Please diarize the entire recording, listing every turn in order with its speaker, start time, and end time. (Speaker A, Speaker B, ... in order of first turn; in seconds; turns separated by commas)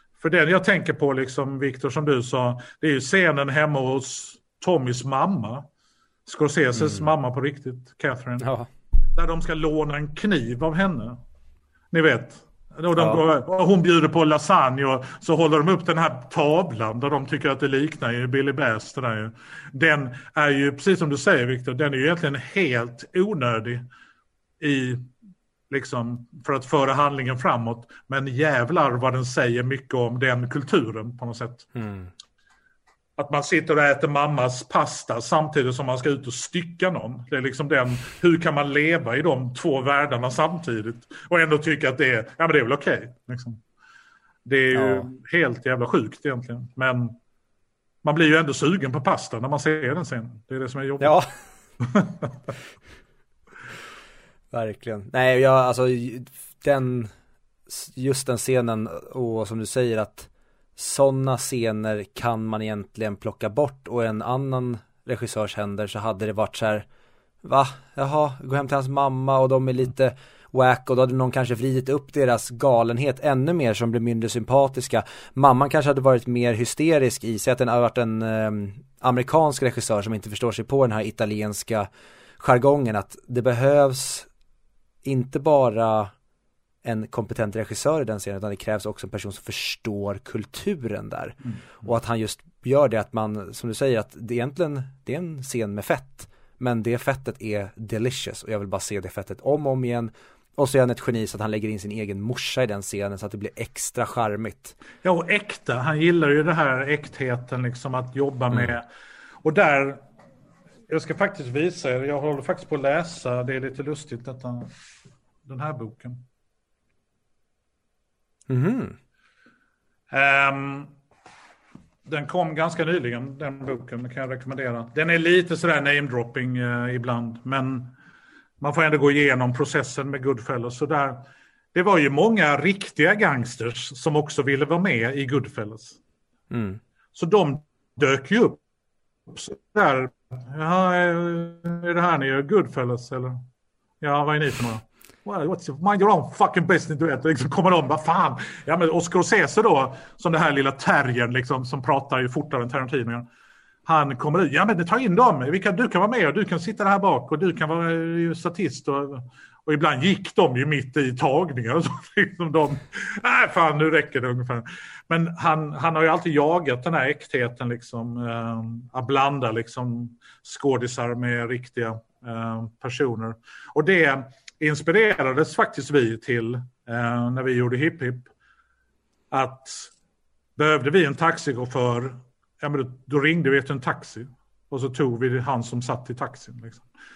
Speaker A: 0.2-5.6, Speaker A: 6.2-8.5, Speaker B: 6.8-7.1, Speaker B: 8.4-8.7, Speaker A: 9.1-11.2, Speaker A: 11.9-23.9, Speaker B: 13.0-13.2, Speaker A: 24.6-25.1, Speaker A: 25.7-31.7, Speaker B: 31.7-32.1, Speaker A: 33.2-43.6, Speaker A: 44.4-47.1, Speaker B: 44.7-45.1, Speaker A: 48.0-51.2, Speaker B: 51.0-51.3, Speaker A: 51.8-52.3, Speaker B: 54.5-57.1, Speaker B: 57.7-66.9, Speaker B: 67.4-81.9, Speaker B: 82.4-84.3, Speaker B: 85.0-86.1, Speaker B: 86.8-104.8, Speaker A: 105.0-108.8, Speaker A: 109.4-110.0, Speaker A: 110.9-114.7, Speaker A: 115.5-116.2, Speaker B: 118.5-119.0, Speaker A: 120.1-120.9, Speaker A: 122.0-127.9, Speaker A: 128.6-136.0, Speaker B: 136.5-136.8, Speaker A: 137.1-138.6, Speaker A: 139.3-143.4, Speaker A: 144.0-153.3, Speaker A: 153.8-178.3, Speaker A: 179.3-179.9, Speaker A: 180.6-186.8